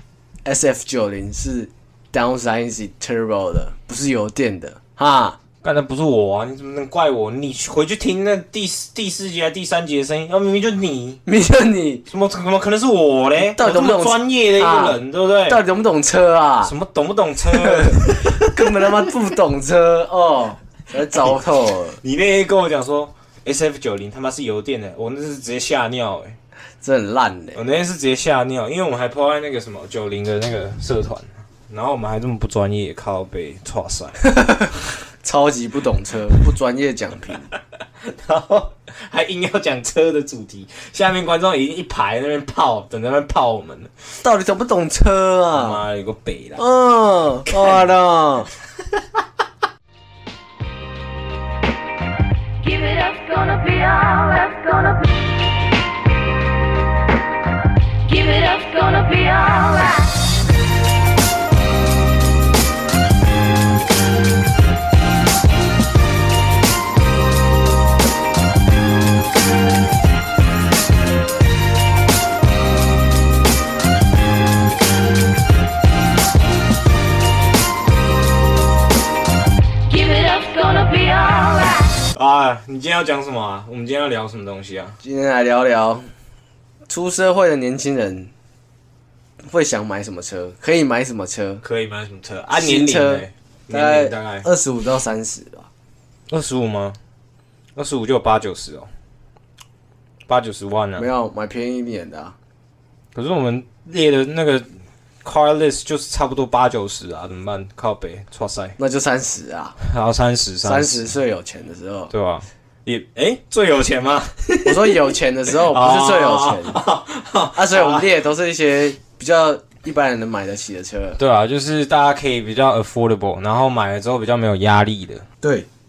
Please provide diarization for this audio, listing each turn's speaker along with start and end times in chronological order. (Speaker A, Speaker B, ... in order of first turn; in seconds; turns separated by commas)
Speaker A: 0.5-5.4, Speaker B: 5.6-11.2, Speaker A: 11.3-12.1, Speaker B: 12.1-15.6, Speaker A: 13.5-16.8, Speaker B: 16.6-18.9, Speaker A: 17.6-22.0, Speaker B: 21.1-21.4, Speaker B: 22.0-26.4, Speaker A: 26.8-27.6, Speaker B: 27.5-34.2, Speaker A: 34.3-34.7, Speaker A: 35.2-37.5, Speaker B: 38.0-43.9, Speaker A: 44.2-45.8, Speaker B: 45.5-46.6, Speaker A: 46.6-48.5, Speaker B: 47.5-47.9, Speaker C: 52.6-55.2, Speaker C: 58.0-60.1, Speaker C: 79.9-81.9, Speaker B: 82.1-85.0, Speaker A: 85.0-86.1, Speaker A: 86.9-88.3, Speaker A: 89.5-91.6, Speaker B: 91.6-94.5, Speaker A: 92.5-95.7, Speaker B: 96.3-97.0, Speaker B: 97.8-98.9, Speaker B: 100.3-101.1, Speaker A: 101.0-102.3, Speaker B: 103.1-104.7, Speaker B: 105.2-108.8, Speaker A: 108.8-109.8, Speaker B: 109.8-111.1, Speaker A: 110.6-112.1, Speaker B: 112.1-115.0, Speaker A: 114.7-116.8, Speaker B: 115.6-118.1, Speaker A: 117.5-121.2, Speaker B: 121.2-125.2, Speaker A: 125.4-125.7